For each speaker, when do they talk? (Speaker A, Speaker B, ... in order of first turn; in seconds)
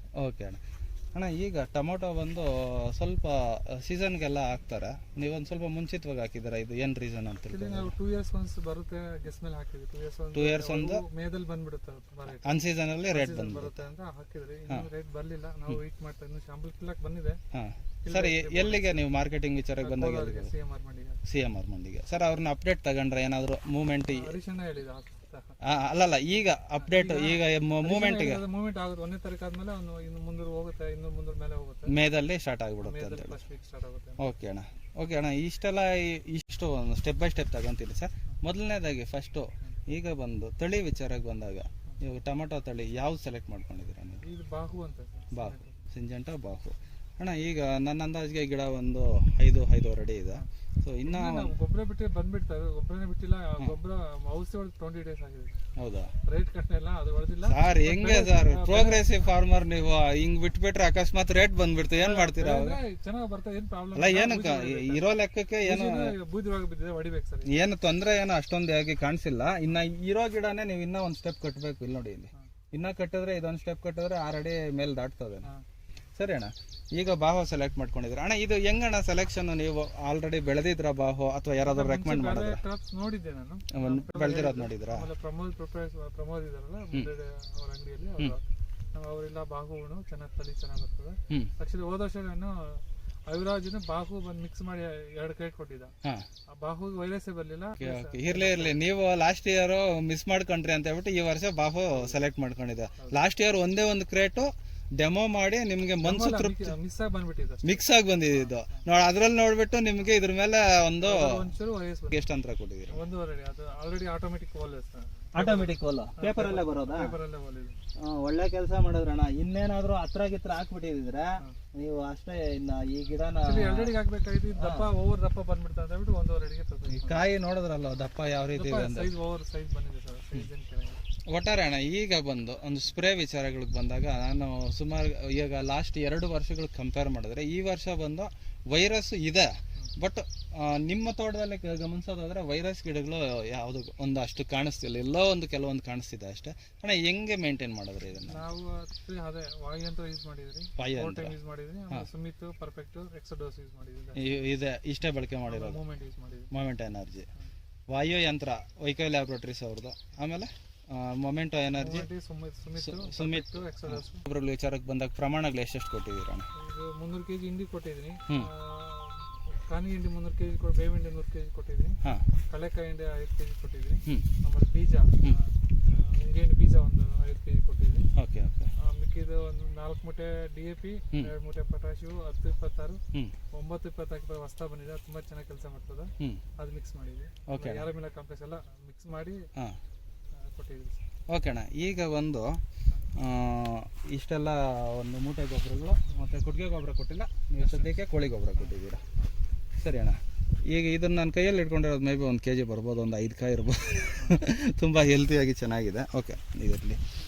Speaker A: 0.1-0.6, 1.1-7.9, 10.3-11.0, 12.4-13.8, 17.5-20.5, 21.2-24.3, 25.6-28.4, 31.9-33.4, 34.2-44.2, 45.3-51.5, 55.8-56.1, 57.4-62.8, 63.9-66.1, 67.4-75.5, 76.2-82.6, 83.7-85.1, 97.8-106.7, 107.6-111.4, 112.1-113.0, 115.3-117.1, 118.0-124.0, 124.5-124.9, 126.9-129.1, 131.3-148.4, 150.8-151.3, 154.1-155.8, 156.5-157.3, 157.9-162.1, 162.8-166.5, 178.2-178.7, 187.5-187.8, 191.3-192.6, 193.1-199.0, 199.8-207.0
Speaker B: 7.5-17.4, 18.0-19.0, 19.8-21.2, 24.1-25.6, 26.8-31.9, 32.8-34.2, 44.2-45.9, 51.0-55.6, 56.2-59.4, 61.9-65.0, 65.6-67.5, 81.6-95.9, 96.5-98.8, 101.9-102.2, 106.0-108.8, 111.0-112.2, 112.9-117.8, 123.4-127.3, 128.5-131.0, 148.2-154.2, 155.5-156.5, 161.7-164.2, 166.5-178.1, 178.8-183.0, 183.5-189.5, 190.3-191.1, 197.6-197.9, 198.6-199.3, 204.1-204.4